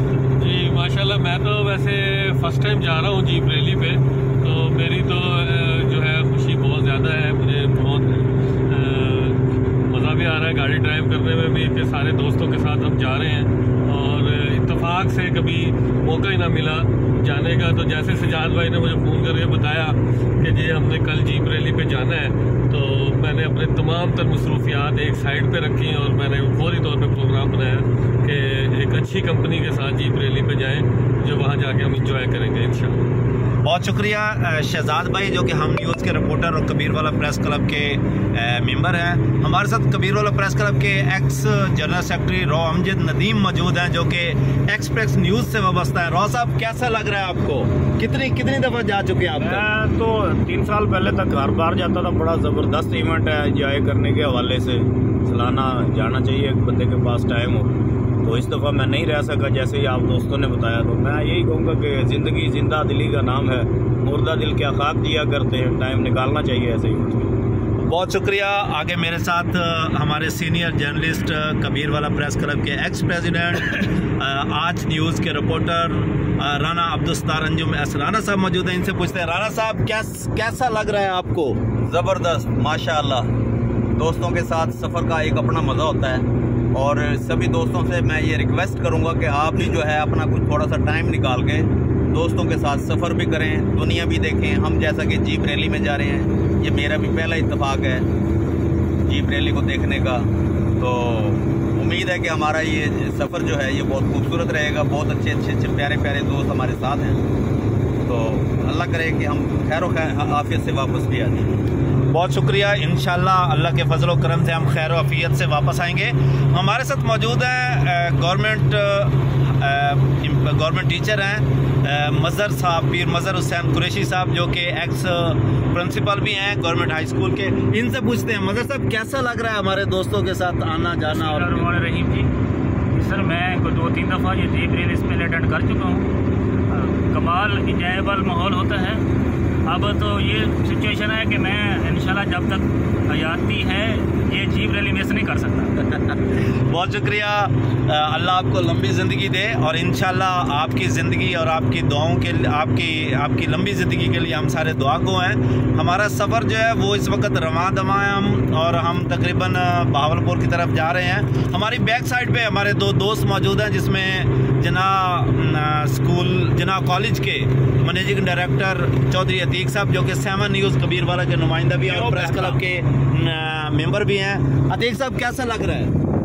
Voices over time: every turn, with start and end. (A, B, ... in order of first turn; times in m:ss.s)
0:00.4-0:33.0 A
0:33.6-0:49.7 B
0:49.4-1:07.3 C
1:07.8-1:21.6 B
1:21.9-1:23.3 D
1:24.0-1:38.1 D
1:39.1-1:47.2 D
1:48.0-1:51.5 D
1:52.1-2:11.7 B
2:11.0-2:12.3 E
2:13.0-2:16.1 E
2:16.7-2:19.0 E
2:19.6-2:25.9 E
2:26.2-2:55.9 B
2:52.0-2:52.5 C